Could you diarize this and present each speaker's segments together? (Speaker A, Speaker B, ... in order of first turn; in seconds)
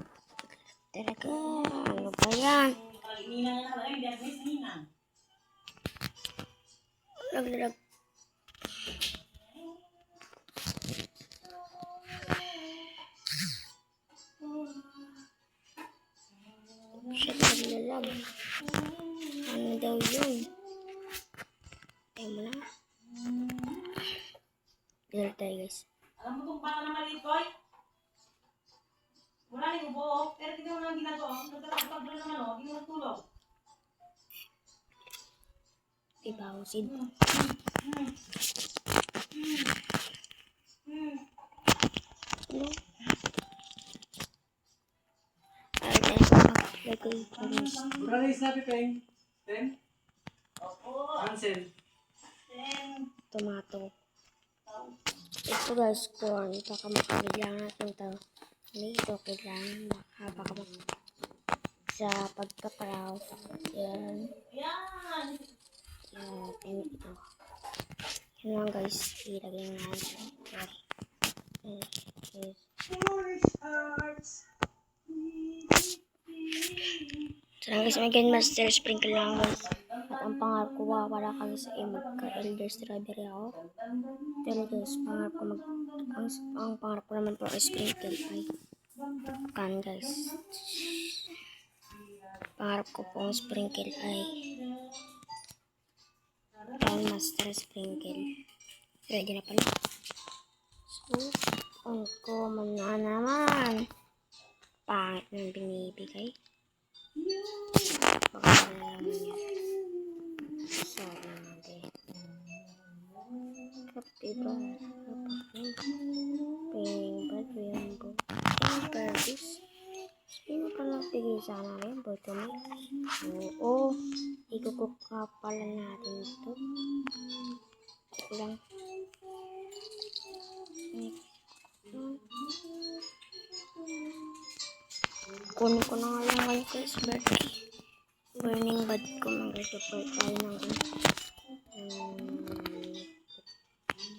Speaker A: 0.4-2.8, 7.3-7.8, 17.0-18.2, 19.4-20.5, 22.1-22.6, 25.1-25.9, 36.2-37.0, 42.5-42.8, 45.8-47.9, 53.3-53.9, 55.5-58.2, 58.7-60.7, 61.9-64.3, 66.1-67.2, 68.4-70.8, 71.6-72.7, 77.6-83.6, 84.4-88.5, 89.5-91.3, 92.6-94.5, 96.8-98.3, 99.1-99.7, 100.9-103.9, 104.9-106.3, 108.3-109.5, 110.7-111.9, 113.9-115.9, 116.7-119.6, 120.4-126.6, 128.1-128.6, 130.9-131.2, 131.9-132.2, 135.5-137.6, 138.4-140.8, 141.7-143.1
Speaker B: 2.9-4.9, 26.2-27.5, 29.5-33.2, 37.7-38.1, 50.6-51.2, 52.5-53.0, 64.5-65.4
Speaker C: 47.9-49.7, 51.1-51.7